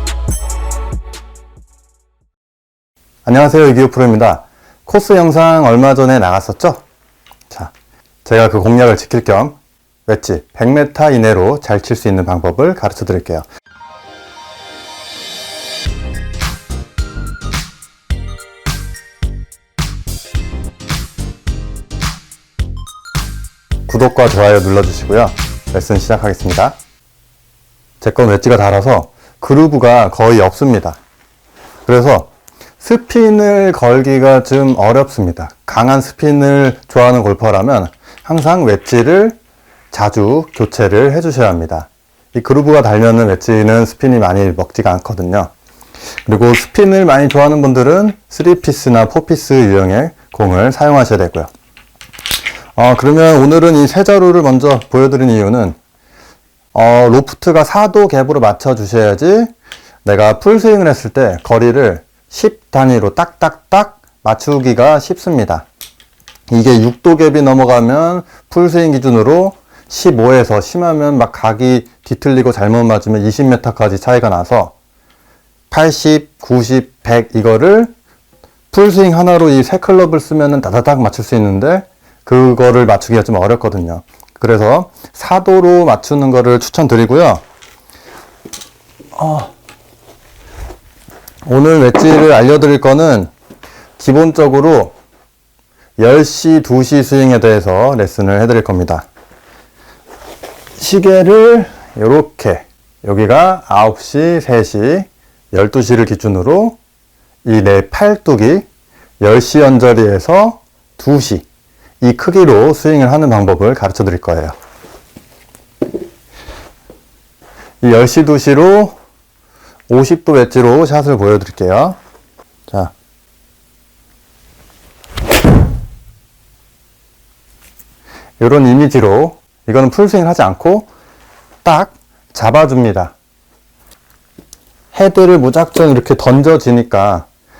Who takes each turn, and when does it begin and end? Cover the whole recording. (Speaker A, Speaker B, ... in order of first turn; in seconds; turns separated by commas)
Speaker A: 3.2-6.8, Speaker A: 8.2-13.4, Speaker A: 23.9-26.8, Speaker A: 28.0-31.0, Speaker A: 31.9-39.4, Speaker A: 39.9-45.5, Speaker A: 46.2-51.5, Speaker A: 52.8-55.8, Speaker A: 56.7-59.5, Speaker A: 60.0-65.7, Speaker A: 66.5-74.7, Speaker A: 75.7-77.9, Speaker A: 78.7-87.4, Speaker A: 89.1-89.5, Speaker A: 91.5-93.3, Speaker A: 94.0-94.9, Speaker A: 96.0-99.1, Speaker A: 100.8-106.8, Speaker A: 107.4-108.7, Speaker A: 109.2-111.5, Speaker A: 112.0-114.5, Speaker A: 117.8-118.9, Speaker A: 119.9-122.0, Speaker A: 122.7-122.9, Speaker A: 128.4-130.9, Speaker A: 131.6-133.1, Speaker A: 134.9-137.3